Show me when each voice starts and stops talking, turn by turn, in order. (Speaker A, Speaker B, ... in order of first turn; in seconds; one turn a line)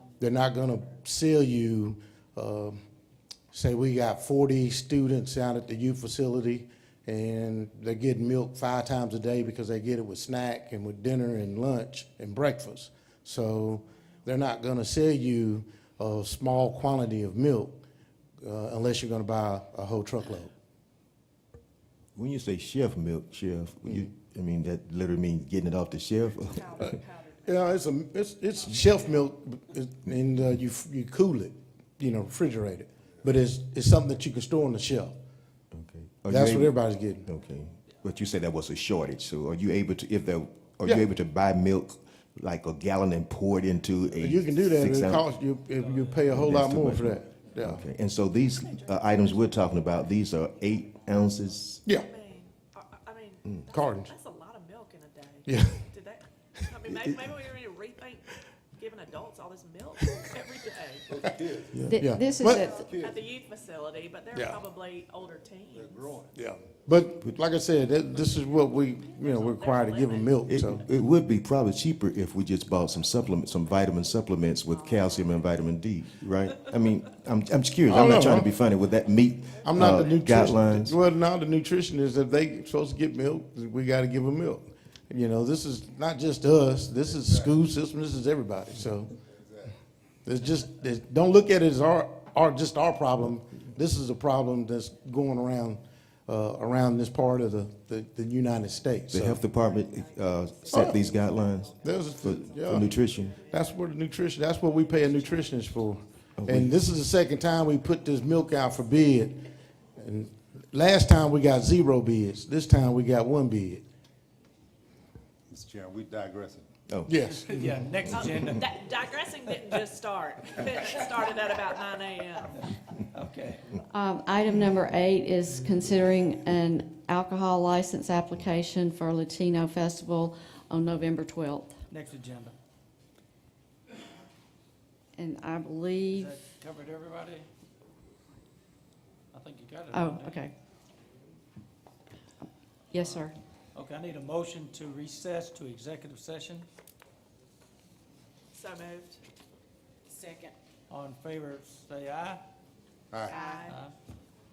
Speaker A: 0.2-2.8
Speaker A: 3.5-17.8
Speaker A: 18.4-20.5
Speaker B: 22.1-26.9
Speaker C: 26.5-27.9
Speaker A: 26.8-35.2
Speaker C: 28.7-29.2
Speaker B: 35.7-36.8
Speaker A: 36.3-37.3
Speaker B: 37.3-45.2
Speaker A: 44.2-47.8
Speaker D: 45.8-46.2
Speaker B: 46.3-51.8
Speaker C: 48.5-49.9
Speaker C: 51.9-61.2
Speaker A: 53.7-54.1
Speaker A: 55.5-55.8
Speaker E: 61.1-61.8
Speaker B: 61.7-62.0
Speaker F: 61.9-62.9
Speaker A: 62.0-62.7
Speaker C: 62.5-66.2
Speaker E: 62.6-63.2
Speaker A: 64.3-64.6
Speaker E: 65.7-66.4
Speaker A: 66.3-70.8
Speaker C: 68.3-70.5
Speaker B: 70.5-81.0
Speaker C: 74.7-75.6
Speaker A: 77.9-78.5
Speaker C: 79.5-80.1
Speaker A: 79.6-89.1
Speaker E: 87.2-87.5
Speaker E: 89.3-89.8
Speaker A: 90.2-99.4
Speaker B: 99.1-101.7
Speaker C: 99.6-106.0
Speaker A: 100.7-101.0
Speaker A: 101.8-102.9
Speaker B: 102.2-103.3
Speaker A: 103.5-109.4
Speaker B: 106.4-106.7
Speaker A: 110.0-113.8
Speaker E: 115.5-116.7
Speaker B: 116.9-117.1
Speaker A: 117.1-117.6
Speaker D: 117.2-118.7
Speaker C: 118.1-122.6
Speaker D: 123.1-123.6
Speaker F: 123.9-131.8
Speaker D: 131.9-132.5
Speaker F: 135.2-136.3
Speaker D: 136.1-137.5
Speaker D: 139.3-140.4
Speaker F: 139.9-140.5
Speaker F: 142.9-143.3
Speaker D: 143.8-146.7
Speaker C: 148.5-149.2
Speaker D: 150.9-152.4
Speaker C: 153.2-153.8
Speaker D: 153.5-153.9